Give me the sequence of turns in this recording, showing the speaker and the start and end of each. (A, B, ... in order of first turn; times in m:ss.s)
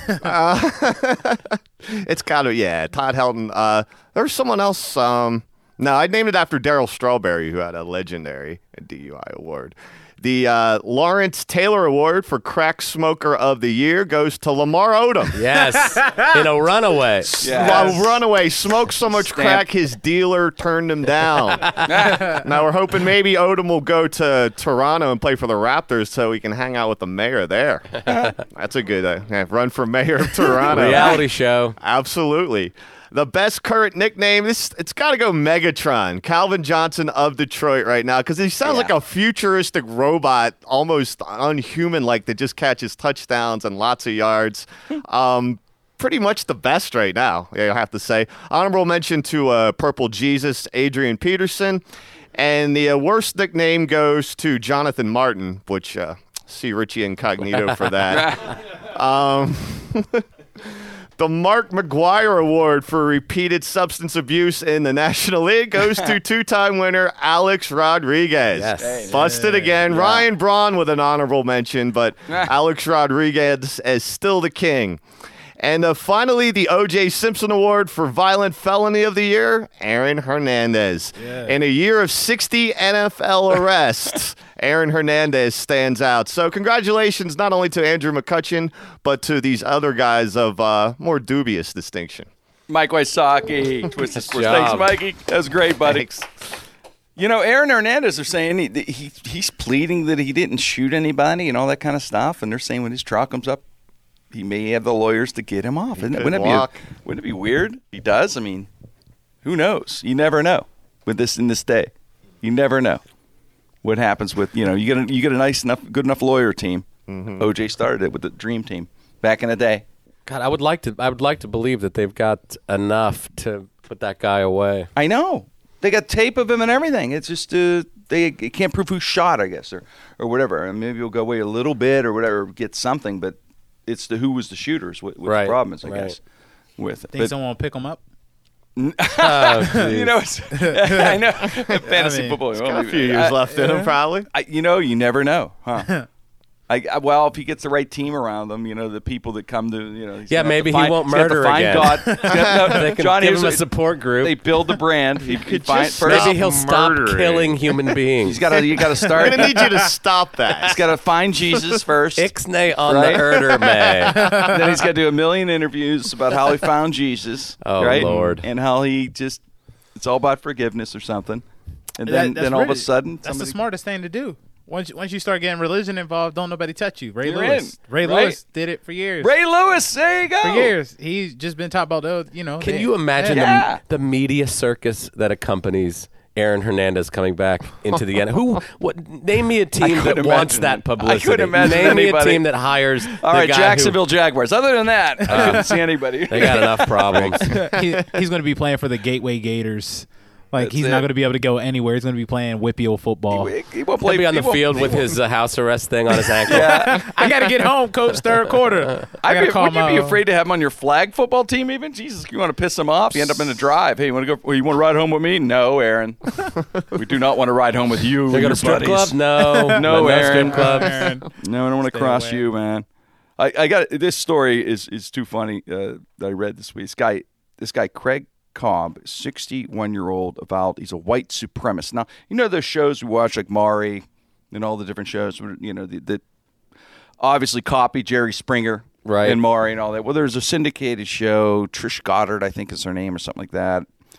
0:00.2-0:15.4 A
0:15.3-0:17.9 B
0:17.2-0:31.2 A
0:17.4-0:18.2 C
0:19.2-0:19.6 C
0:21.8-0:22.4 C
0:28.1-0:28.3 C
0:30.7-0:31.8 B
0:30.8-0:31.1 C
0:31.8-0:51.8 A
0:38.6-0:38.9 C
0:52.3-1:15.0 A
0:58.1-0:58.6 C
1:08.5-1:09.2 B
1:08.8-1:10.2 C
1:09.1-1:09.7 D
1:09.9-1:10.2 B
1:15.6-1:32.3 A
1:21.2-1:21.5 D
1:32.7-1:36.2 C
1:34.2-1:34.9 B
1:35.8-1:36.2 A
1:37.2-1:43.6 C
1:44.3-1:48.7 C
1:46.0-1:46.8 A
1:49.4-1:53.0 C
1:53.8-1:56.8 C
1:57.1-1:57.4 A
1:57.4-1:59.8 C
2:00.2-2:04.9 B
2:05.0-2:16.2 C
2:15.2-2:16.2 B
2:16.8-2:17.3 C
2:17.1-2:18.0 D
2:18.8-2:23.4 C
2:19.2-2:20.1 B
2:20.6-2:21.2 D
2:21.8-2:22.4 D
2:22.5-2:24.3 A
2:23.5-2:23.9 D
2:24.3-2:25.9 C
2:25.8-2:26.1 D
2:26.7-2:36.3 C
2:30.3-2:34.8 B
2:35.2-2:38.0 A
2:36.0-2:38.4 B
2:38.2-2:39.6 C
2:39.1-2:40.8 A
2:39.2-2:39.7 D
2:40.6-2:42.3 C
2:42.2-2:44.5 B
2:42.8-2:43.6 C
2:44.1-2:44.6 D
2:44.2-2:49.4 C
2:47.6-2:48.5 B
2:49.9-2:51.4 C
2:52.0-2:53.6 C
2:52.0-2:59.3 D
2:57.2-2:58.4 C
2:59.2-3:00.7 C
3:00.4-3:03.6 D
3:02.6-3:14.0 B
3:03.3-3:03.8 C
3:09.8-3:17.5 C
3:15.2-3:15.7 D
3:15.3-3:17.7 B
3:17.4-3:23.5 D
3:20.5-3:21.1 C
3:23.3-3:25.1 C
3:24.0-3:27.1 B
3:26.4-3:30.2 D
3:26.5-3:27.3 C
3:29.2-3:39.2 C
3:38.3-3:41.1 B
3:39.4-3:41.3 D
3:39.7-3:40.8 C
3:41.4-3:42.8 C
3:41.9-3:42.4 D
3:43.4-3:56.2 C
3:57.2-4:03.9 C
3:59.0-3:59.4 B